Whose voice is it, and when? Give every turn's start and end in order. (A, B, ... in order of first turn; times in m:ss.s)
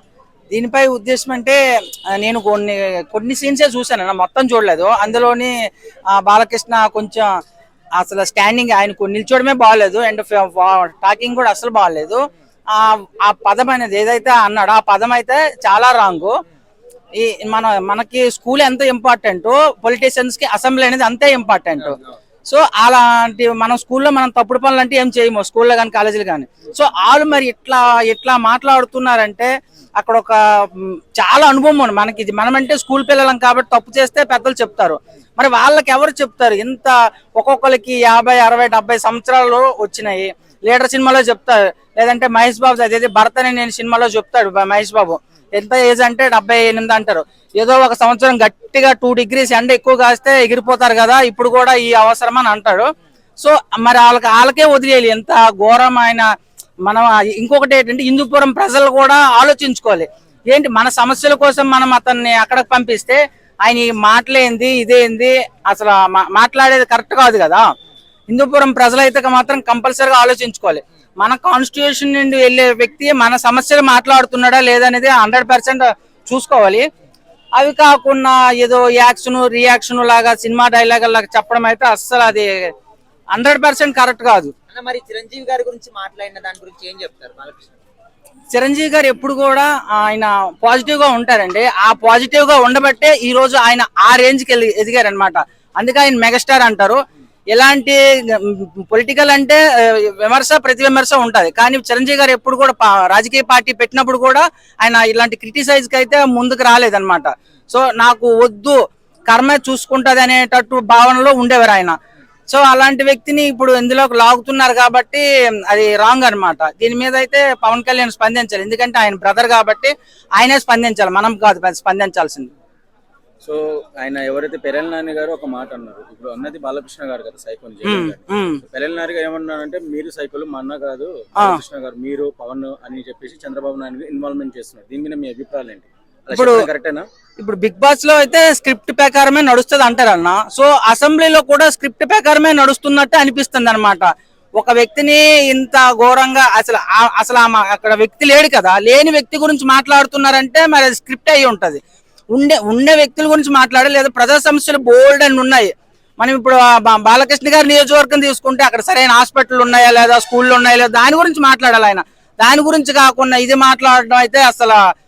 0:00.5-0:01.6 A
0:02.2-0:05.5 A
0:06.1-0:07.3 A
0:08.0-0:16.3 A
0:17.2-0:52.8 A
0:21.8-0:22.2 B
0:53.4-0:56.2 A
0:56.8-1:07.6 A
1:08.3-1:16.8 A
1:17.6-1:22.5 A
1:23.3-1:24.5 A
1:24.7-1:27.7 B
1:28.5-1:37.0 A
1:37.5-1:52.0 A
1:52.5-2:02.5 A
2:03.4-2:17.1 C
2:07.8-2:08.6 A
2:16.3-2:16.7 A
2:17.4-2:31.8 A
2:32.3-2:44.8 A